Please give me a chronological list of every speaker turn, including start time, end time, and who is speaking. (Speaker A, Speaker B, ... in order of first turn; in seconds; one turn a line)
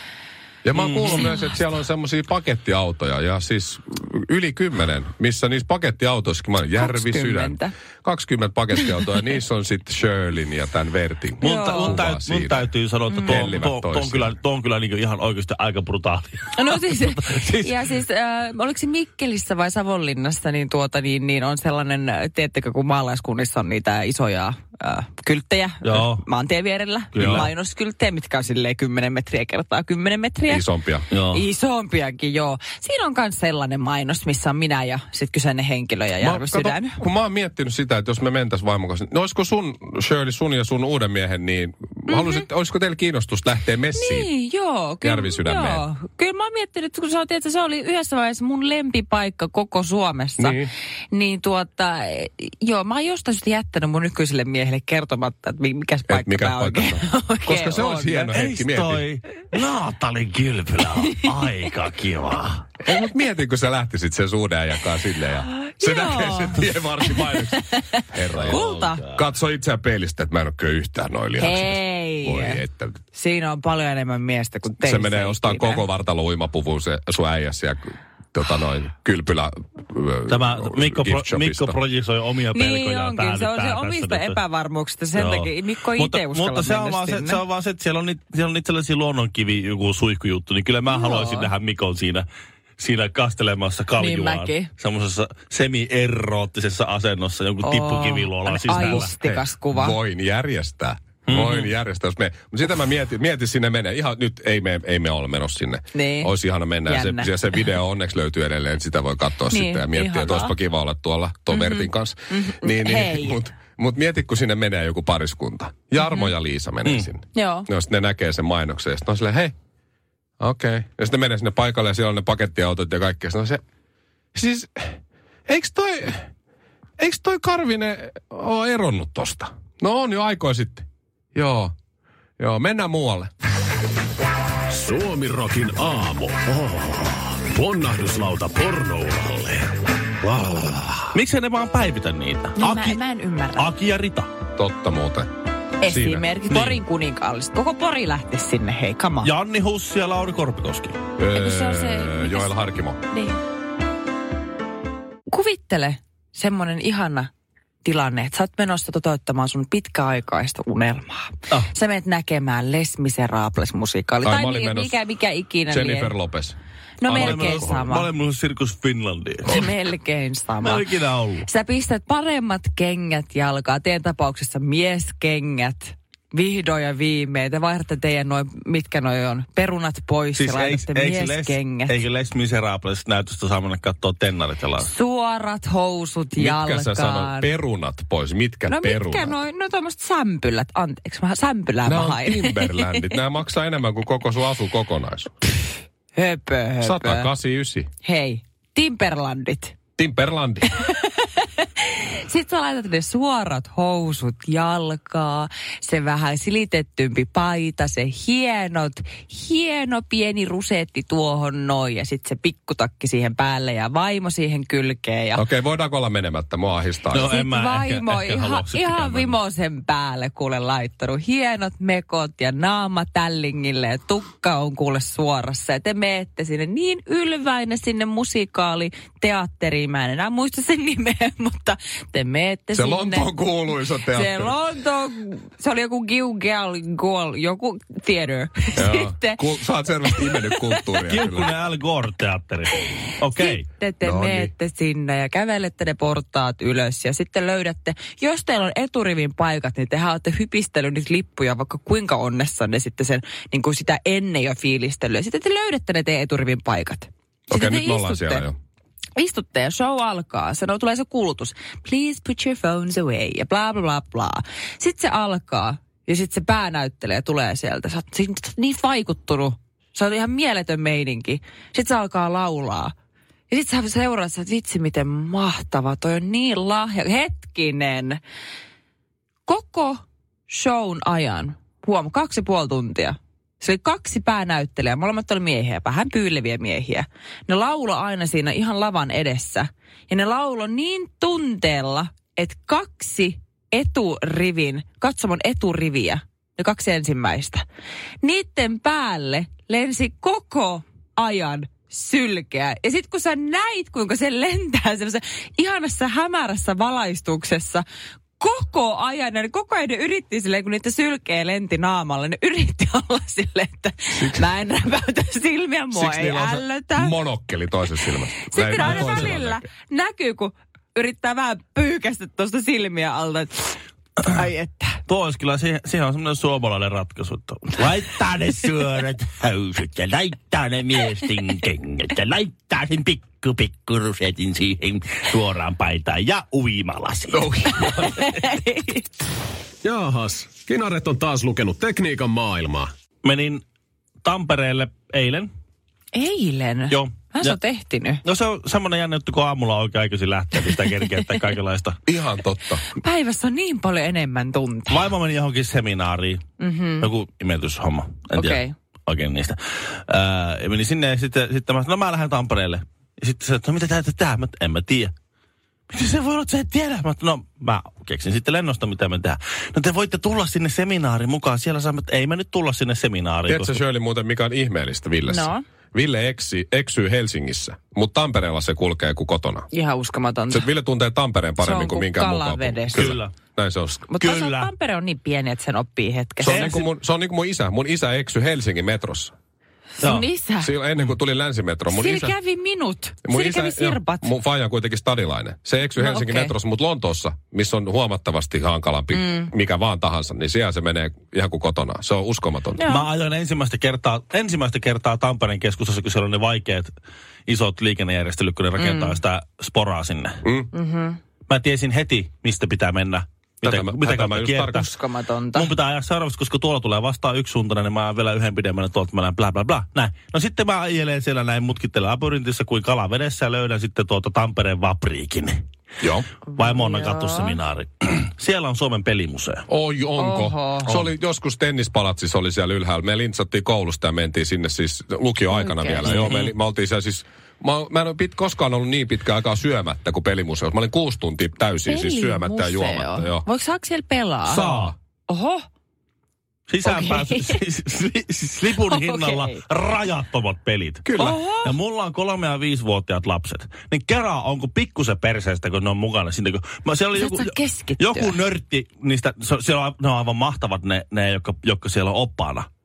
Speaker A: 0.7-14.3
Speaker B: 0.8-1.3
Speaker C: 1.1-1.4
Speaker C: 6.7-7.7
Speaker B: 11.4-17.8
Speaker C: 11.4-12.0
Speaker C: 13.1-13.4
Speaker C: 16.6-30.7
Speaker B: 25.8-26.2
Speaker B: 27.1-27.5
Speaker A: 27.2-27.5
Speaker A: 30.5-31.1
Speaker B: 31.1-31.4
Speaker C: 31.3-37.0
Speaker A: 36.2-44.3
Speaker C: 42.1-42.4
Speaker C: 44.0-58.3
Speaker A: 45.0-45.9
Speaker A: 50.4-50.7
Speaker A: 56.1-59.0
Speaker B: 58.3-62.7
Speaker A: 62.8-73.0
Speaker C: 65.6-69.0
Speaker B: 68.3-69.2
Speaker C: 71.4-75.9
Speaker A: 74.8-81.8
Speaker B: 80.3-84.4
Speaker C: 82.5-87.4
Speaker B: 85.2-92.3
Speaker C: 90.9-91.5
Speaker B: 92.8-99.1
Speaker C: 94.0-94.7
Speaker C: 97.6-100.0
Speaker A: 98.7-119.5
Speaker B: 101.3-101.7
Speaker C: 105.9-106.3
Speaker C: 106.9-107.3
Speaker C: 109.5-110.5
Speaker C: 111.5-113.4
Speaker C: 116.0-116.3
Speaker C: 117.3-117.7
Speaker A: 120.4-123.6
Speaker A: 124.3-125.0
Speaker A: 125.5-126.3
Speaker A: 127.0-131.7
Speaker A: 132.4-133.3
Speaker D: 134.7-139.8
Speaker B: 141.1-143.0
Speaker C: 142.6-143.7
Speaker B: 143.6-144.3
Speaker A: 144.6-145.3
Speaker C: 145.8-149.3
Speaker A: 145.8-146.2
Speaker B: 146.5-146.8
Speaker B: 149.2-151.0
Speaker A: 151.2-153.0
Speaker C: 151.3-152.6
Speaker C: 153.1-153.4
Speaker C: 155.3-157.3
Speaker C: 157.8-166.2
Speaker A: 164.2-165.0
Speaker A: 165.7-167.8
Speaker C: 167.0-168.1
Speaker B: 167.2-169.7
Speaker C: 169.5-170.9
Speaker B: 170.6-171.5
Speaker C: 171.4-182.0
Speaker B: 180.4-184.9
Speaker C: 184.8-187.5
Speaker A: 186.4-189.4
Speaker C: 188.7-193.1
Speaker A: 191.9-195.3
Speaker C: 196.1-197.3
Speaker A: 196.8-197.9
Speaker C: 198.0-199.8
Speaker A: 200.0-200.7
Speaker C: 200.7-215.4
Speaker A: 215.3-217.3
Speaker B: 217.1-219.4
Speaker C: 217.2-233.3
Speaker A: 232.7-234.6
Speaker C: 234.1-239.4
Speaker A: 238.8-241.5
Speaker C: 240.0-241.0
Speaker B: 241.1-243.7
Speaker C: 242.7-258.5
Speaker A: 244.0-244.5
Speaker A: 257.5-258.6
Speaker C: 259.2-272.9
Speaker C: 273.5-278.2
Speaker C: 279.5-297.6
Speaker C: 298.2-307.8
Speaker C: 308.4-317.1
Speaker A: 314.1-314.5
Speaker A: 315.9-319.7
Speaker C: 318.1-325.0
Speaker B: 318.8-319.4
Speaker B: 325.1-338.2
Speaker A: 337.3-338.3
Speaker C: 337.9-339.1
Speaker D: 339.8-342.9
Speaker B: 343.2-343.6
Speaker B: 344.2-345.5
Speaker C: 346.1-348.2
Speaker B: 346.9-347.6
Speaker B: 348.2-352.0
Speaker A: 352.1-352.8
Speaker C: 352.8-355.1
Speaker B: 354.9-356.4
Speaker C: 356.6-357.1
Speaker B: 357.0-365.1
Speaker C: 358.3-358.7
Speaker B: 365.9-373.8
Speaker A: 373.5-379.7
Speaker C: 375.3-375.6
Speaker C: 379.7-380.7
Speaker A: 380.5-384.1
Speaker C: 381.6-383.1
Speaker B: 382.9-383.3
Speaker C: 384.1-386.7
Speaker B: 384.2-384.7
Speaker A: 386.4-389.3
Speaker B: 386.4-386.9
Speaker C: 390.0-390.7
Speaker B: 390.0-390.3
Speaker A: 390.6-392.4
Speaker C: 391.9-394.3
Speaker A: 393.2-402.8
Speaker C: 396.0-396.6
Speaker C: 399.1-399.5
Speaker C: 402.8-403.1
Speaker B: 402.9-406.9
Speaker B: 407.5-410.4
Speaker C: 408.8-409.2
Speaker A: 410.4-410.7
Speaker C: 410.7-411.2
Speaker B: 411.5-414.9
Speaker A: 413.6-414.8
Speaker C: 414.7-415.7
Speaker B: 415.5-425.6
Speaker A: 426.0-426.3
Speaker C: 426.5-427.6
Speaker B: 426.6-429.7
Speaker A: 429.7-443.4
Speaker C: 430.2-431.1
Speaker C: 435.5-436.3
Speaker B: 436.0-436.5
Speaker C: 441.9-444.7
Speaker A: 444.4-445.0
Speaker B: 444.6-444.9
Speaker C: 445.3-445.6
Speaker B: 446.7-462.7
Speaker C: 446.9-447.6
Speaker C: 448.7-449.6
Speaker A: 451.1-451.4
Speaker C: 451.1-451.8
Speaker C: 457.1-458.4